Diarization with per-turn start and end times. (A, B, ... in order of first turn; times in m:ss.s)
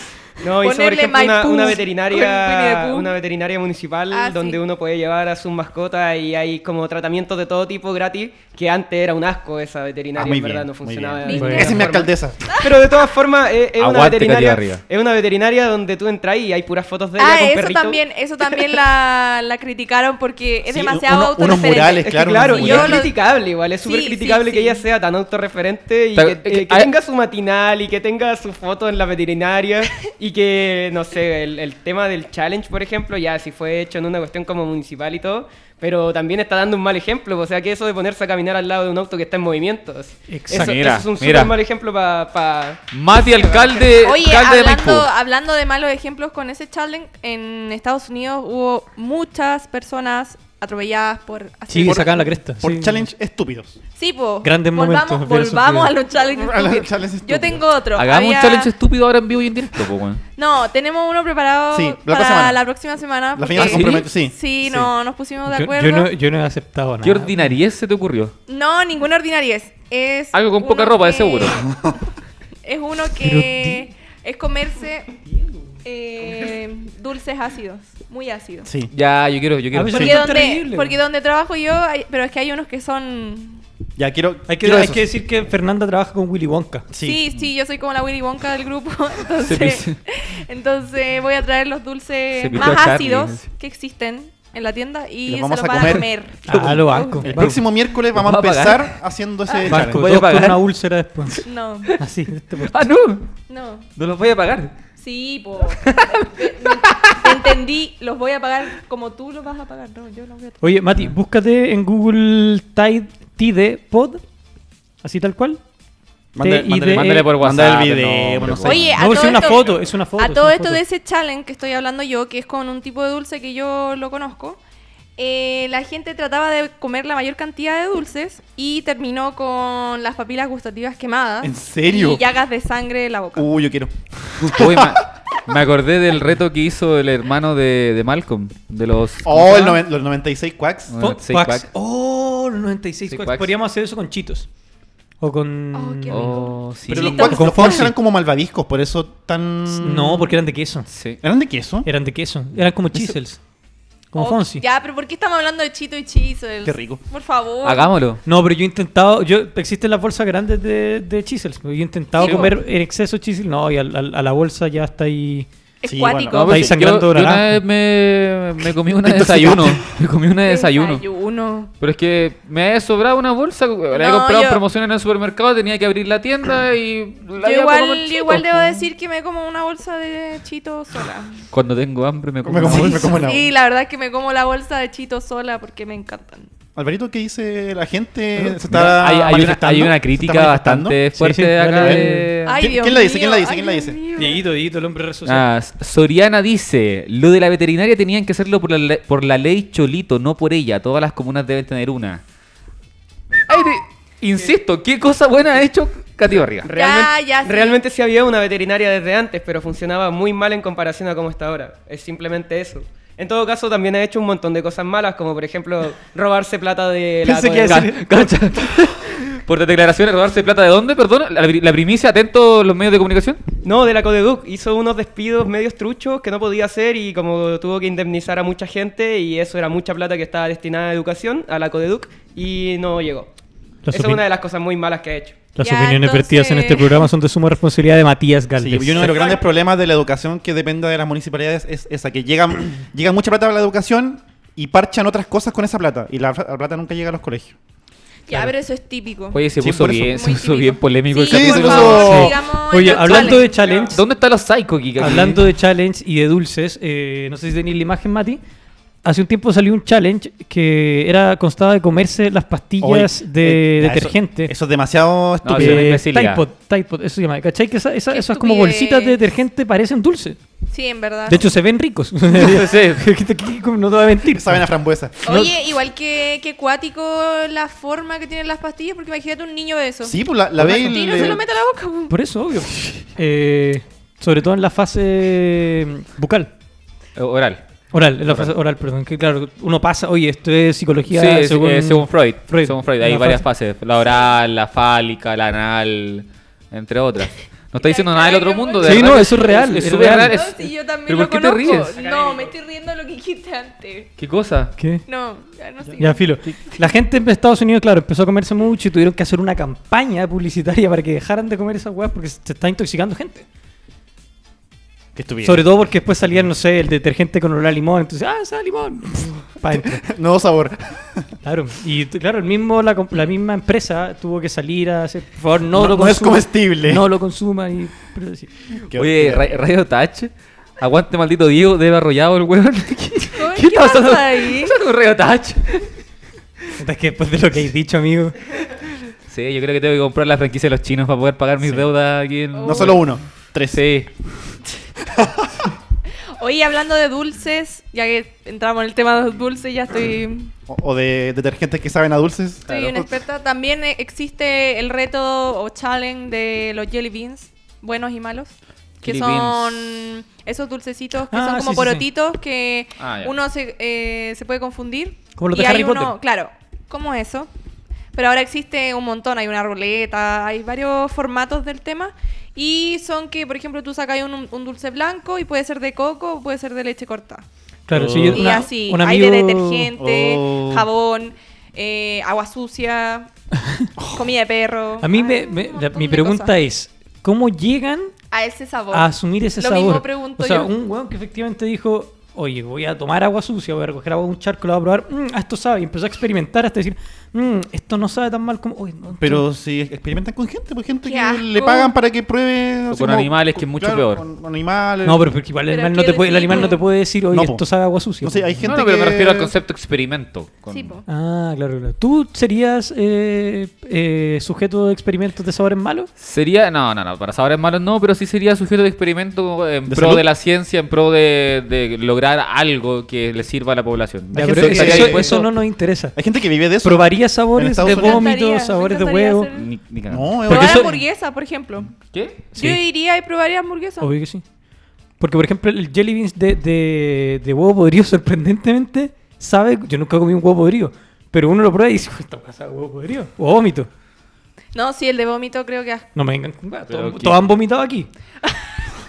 0:00.4-0:18.0 A
0:00.6-0:03.1 B
0:04.1-0:04.6 B
0:10.1-0:12.4 C
0:11.2-0:11.8 B
0:11.3-0:11.8 D
0:12.5-0:12.8 B
0:13.8-0:14.8 E
0:17.2-0:23.2 B
0:20.7-0:23.1 C
0:22.0-0:43.9 A
0:23.8-0:24.8 B
0:26.1-0:26.9 E
0:40.3-0:40.8 D
0:40.5-0:41.5 E
0:42.9-0:45.1 E
0:44.0-0:52.3 B
0:51.7-0:53.0 D
0:51.8-0:52.1 C
0:52.6-0:53.8 C
0:54.0-0:58.7 B
0:54.4-0:55.9 D
0:56.2-0:57.6 C
0:57.9-1:00.2 E
1:00.4-1:06.1 B
1:01.7-1:02.6 C
1:03.3-1:04.9 C
1:03.5-1:04.1 E
1:05.4-1:07.5 D
1:07.0-1:08.3 E
1:08.5-1:11.8 B
1:10.3-1:11.6 E
1:12.6-1:15.1 B
1:13.2-1:13.9 D
1:15.8-1:18.7 B
1:18.6-1:18.9 C
1:18.9-1:20.3 E
1:19.7-1:21.0 D
1:19.9-1:23.6 B
1:24.0-1:25.1 C
1:24.5-1:26.9 D
1:26.9-1:27.2 C
1:27.0-1:37.3 B
1:29.4-1:30.0 E
1:32.4-1:33.5 E
1:35.2-1:40.0 C
1:36.5-1:37.6 D
1:36.5-1:36.8 E
1:38.1-1:39.0 E
1:39.5-1:39.7 B
1:39.7-1:41.4 D
1:39.7-1:40.6 E
1:41.3-1:41.9 E
1:41.4-1:42.0 B
1:42.0-1:42.8 D
1:42.6-1:43.3 E
1:43.5-1:43.9 B
1:44.0-1:44.7 E
1:45.0-1:50.7 B
1:46.4-1:47.5 E
1:50.6-1:54.2 D
1:55.0-1:55.6 D
1:56.3-1:59.3 C
1:56.4-1:57.3 D
1:56.9-1:59.0 E
1:58.6-2:04.6 B
1:59.0-2:00.8 D
2:05.2-2:13.5 B
2:11.4-2:12.2 C
2:13.3-2:15.0 C
2:14.5-2:19.8 E
2:19.2-2:21.0 C
2:20.9-2:21.7 E
2:21.0-2:24.5 D
2:23.1-2:23.5 E
2:25.2-2:26.4 D
2:25.7-2:27.8 B
2:26.1-2:27.4 E
2:26.9-2:30.4 C
2:27.2-2:27.9 D
2:29.7-2:30.9 D
2:30.9-2:31.2 E
2:31.2-2:31.9 C
2:31.8-2:33.4 D
2:34.1-2:34.6 D
2:34.2-2:37.9 B
2:36.6-2:37.0 C
2:37.6-2:38.2 E
2:38.2-2:45.5 D
2:42.2-2:42.6 B
2:42.2-2:42.5 E
2:45.8-2:46.6 B
2:45.8-2:46.7 C
2:46.3-2:51.0 E
2:46.4-2:47.6 D
2:49.0-2:49.8 C
2:50.4-2:51.7 B
2:51.8-2:58.9 E
2:53.9-2:54.6 B
2:57.4-3:01.4 B
3:01.5-3:03.2 E
3:02.4-3:03.5 C
3:02.9-3:06.5 B
3:06.8-3:11.0 C
3:08.5-3:12.6 E
3:11.2-3:12.3 D
3:11.8-3:14.0 C
3:12.4-3:14.4 B
3:14.2-3:15.5 D
3:15.2-3:22.2 E
3:23.5-3:26.7 E
3:26.6-3:37.9 A
3:26.7-3:27.8 B
3:37.2-3:38.3 D
3:37.6-3:43.4 E
3:43.6-3:53.3 A
3:53.8-3:54.2 D
3:53.9-3:55.5 A
3:55.5-3:59.3 D
3:55.6-3:57.1 B
3:58.6-4:07.6 C
4:08.3-4:09.4 B
4:09.3-4:12.3 E
4:09.6-4:10.2 C
4:10.0-4:13.5 B
4:11.3-4:12.4 C
4:11.9-4:14.0 D
4:12.9-4:13.4 E
4:13.6-4:13.9 A
4:13.9-4:15.4 E
4:15.0-4:18.4 D
4:19.0-4:24.5 D
4:22.8-4:25.9 C
4:25.4-4:26.4 E
4:25.5-4:30.4 D
4:28.1-4:29.2 B
4:30.7-4:31.4 B
4:31.3-4:34.6 D
4:32.3-4:33.0 E
4:34.2-4:35.2 C
4:35.2-4:35.5 D
4:35.2-4:42.1 B
4:40.0-4:41.4 C
4:40.6-4:41.2 D
4:42.1-4:46.5 D
4:47.2-4:47.6 E
4:47.9-4:53.4 D
4:48.2-4:48.5 E
4:51.1-5:02.0 E
4:57.8-5:04.1 B
4:58.8-5:00.4 D
5:04.2-5:04.7 E
5:04.8-5:05.0 D
5:05.0-5:06.2 B
5:06.0-5:13.4 D
5:15.1-5:15.7 C
5:15.4-5:20.0 D
5:19.7-5:21.2 C
5:21.4-5:28.5 D
5:25.7-5:27.0 C
5:28.8-5:29.5 C
5:28.9-5:35.9 E
5:33.4-5:34.7 B
5:36.8-5:38.4 D
5:39.3-5:43.1 E
5:42.5-5:43.0 B
5:42.6-5:43.9 C
5:43.7-5:44.1 E
5:45.1-5:45.5 C
5:46.4-5:50.5 B
5:50.7-5:53.1 C
5:52.7-6:07.5 B
5:59.0-5:59.8 E
6:01.3-6:02.0 D
6:03.0-6:03.4 E
6:05.4-6:06.1 D
6:08.1-6:17.4 B
6:17.9-6:19.9 D
6:17.9-6:18.5 C
6:18.3-6:23.3 B
6:20.0-6:20.9 C
6:24.0-6:24.3 C
6:24.1-6:26.5 B
6:25.0-6:28.1 D
6:28.3-6:30.7 B
6:28.9-6:39.4 D
6:39.2-6:45.2 C
6:41.0-6:41.9 B
6:42.9-6:44.2 E
6:45.0-6:48.7 D
6:45.7-6:46.8 B
6:47.3-6:47.7 C
6:48.2-6:49.5 C
6:48.6-6:51.0 E
6:50.7-6:51.0 B
6:51.1-6:56.1 D
6:56.2-7:05.4 E
6:59.9-7:00.2 C
7:04.3-7:06.2 D
7:04.4-7:05.5 C
7:06.1-7:08.3 C
7:06.8-7:09.5 D
7:07.8-7:09.7 B
7:09.5-7:10.4 E
7:10.1-7:10.9 C
7:10.5-7:11.9 B
7:10.5-7:11.0 D
7:12.1-7:12.4 E
7:12.5-7:14.1 B
7:14.0-7:14.4 D
7:15.2-7:23.9 D
7:24.7-7:26.1 B
7:26.1-7:28.1 D
7:26.9-7:27.4 E
7:28.4-7:28.7 B